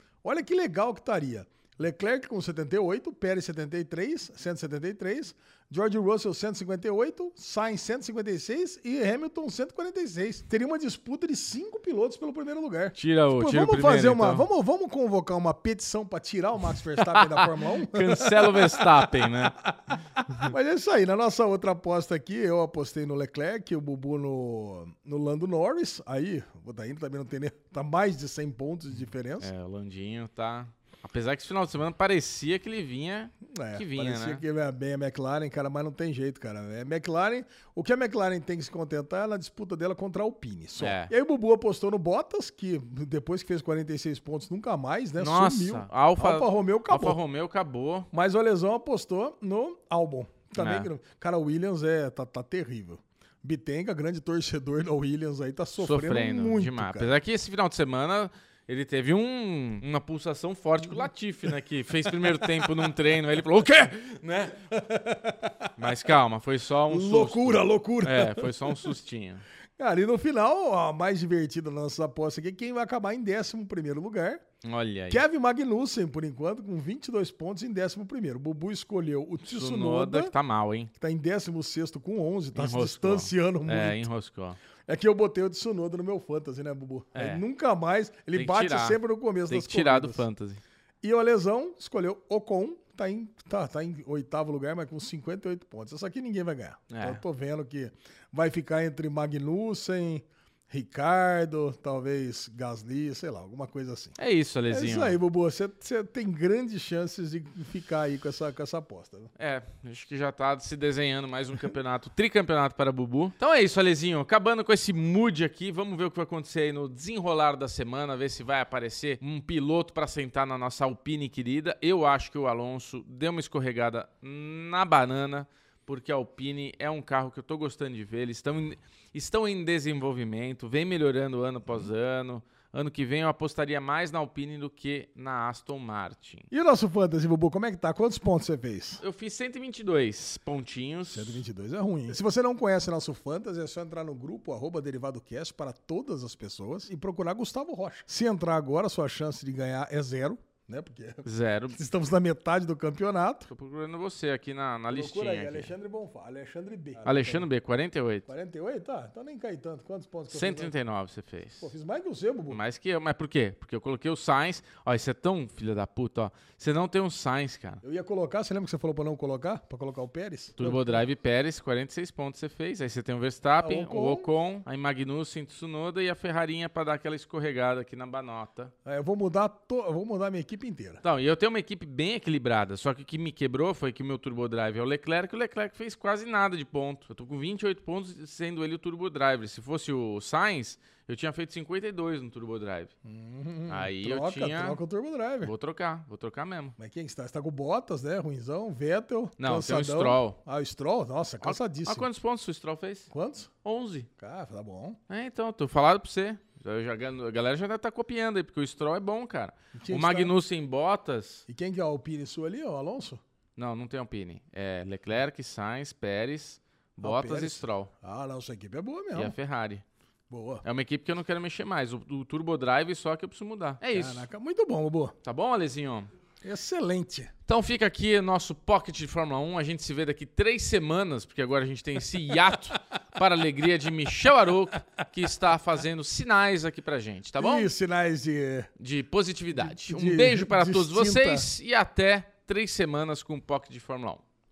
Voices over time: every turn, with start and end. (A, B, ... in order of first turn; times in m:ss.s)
0:00.2-0:29.5 A
0:13.0-0:14.5 B
0:16.7-0:19.6 B
0:28.9-0:34.4 B
0:33.5-0:47.2 A
0:40.8-0:41.1 B
0:45.2-0:48.1 B
0:48.1-0:57.1 A
0:50.6-0:50.9 B
0:55.8-1:04.6 B
1:02.1-1:02.9 A
1:04.7-1:05.7 A
1:05.8-1:09.4 B
1:06.9-1:08.9 A
1:09.8-1:14.4 A
1:14.6-1:15.2 B
1:15.1-1:20.3 A
1:19.4-1:20.9 B
1:21.0-1:24.0 A
1:22.5-1:24.6 B
1:24.9-1:30.2 A
1:27.1-1:27.4 B
1:28.3-1:30.6 B
1:31.0-1:44.2 A
1:36.9-1:37.2 B
1:44.2-1:45.2 B
1:44.7-1:49.3 A
1:49.4-2:16.5 B
2:16.5-2:19.0 A
2:19.0-2:21.4 B
2:21.1-2:33.5 A
2:31.2-2:31.8 B
2:33.5-2:35.7 B
2:34.9-2:37.5 A
2:37.0-2:38.3 B
2:38.3-2:40.7 A
2:40.3-2:41.7 B
2:41.6-2:42.6 A
2:42.5-2:47.8 B
2:47.8-2:51.0 A
2:50.6-2:58.7 B
2:53.6-2:54.3 A
2:58.8-3:01.0 A
3:01.0-3:12.9 B
3:13.0-3:15.5 A
3:13.7-3:14.8 B
3:15.4-3:16.7 B
3:16.8-3:22.1 A
3:19.4-3:20.4 B
3:21.4-3:23.1 B
3:23.1-3:23.5 A
3:23.6-3:24.1 B
3:24.2-3:25.0 A
3:25.1-3:31.4 B
3:29.8-3:30.3 A
3:31.5-3:33.2 A
3:33.6-3:37.9 B
3:37.0-3:39.4 A
3:39.1-3:39.8 B
3:40.3-3:40.6 A
3:40.6-3:44.3 B
3:43.9-3:45.1 A
3:45.2-3:46.1 B
3:46.4-3:47.3 A
3:47.5-3:57.7 B
3:52.2-3:52.7 A
3:57.4-3:58.7 A
3:58.8-4:04.2 B
3:59.6-4:01.5 A